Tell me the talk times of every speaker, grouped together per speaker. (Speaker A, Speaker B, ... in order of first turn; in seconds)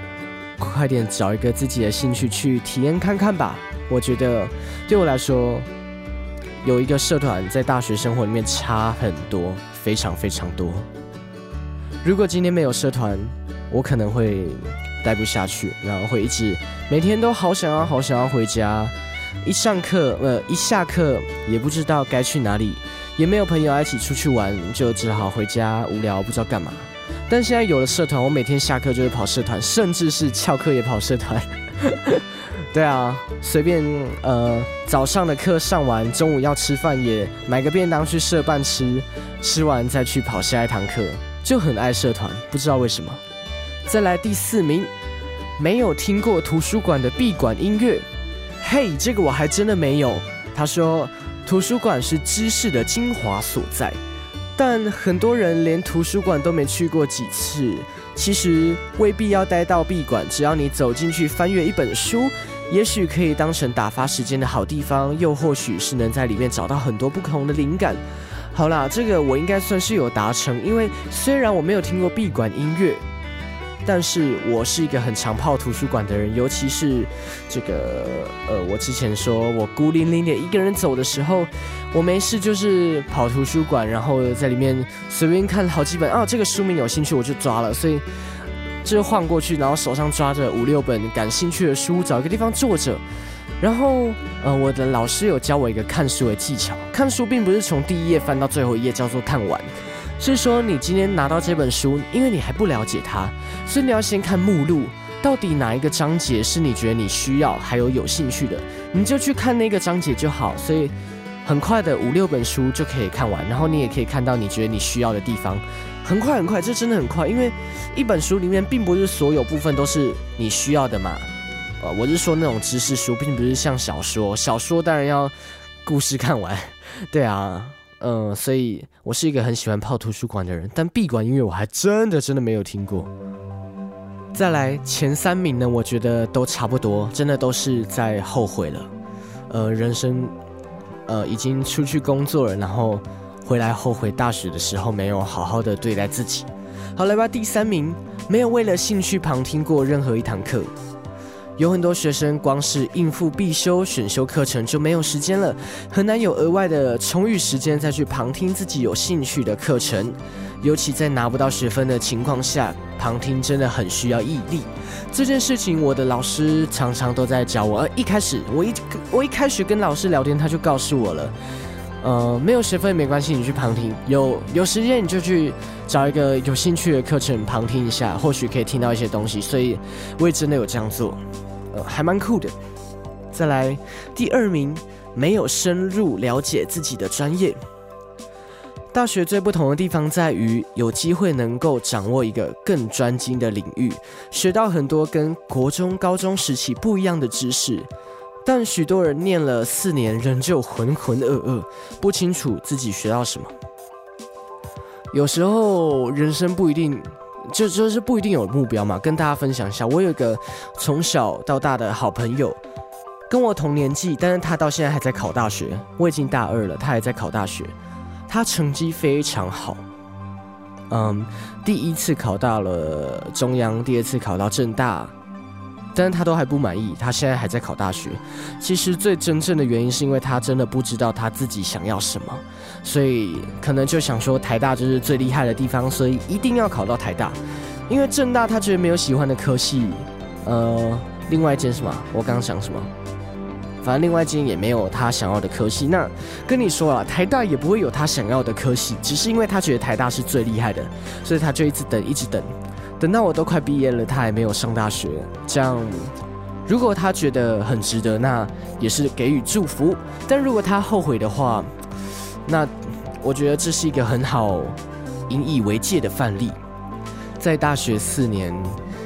Speaker A: 0.6-5.7, 6.6-10.9, 12.0-43.2, 43.9-44.9, 45.6-48.1, 48.6-54.0, 54.5-73.0, 73.8-88.0, 88.8-93.0, 93.6-110.9, 111.4-121.3, 121.8-133.1, 134.3-138.9, 139.5-140.3, 141.1-150.7, 151.6-171.3, 172.0-181.2, 181.7-182.5, 183.3-187.6, 188.9-197.9, 198.4-203.5, 205.1-212.6, 213.3-217.7, 218.3-219.8, 220.9-225.1, 225.9-242.9, 243.8-256.1, 256.6-261.7, 262.4-266.6, 267.4-268.8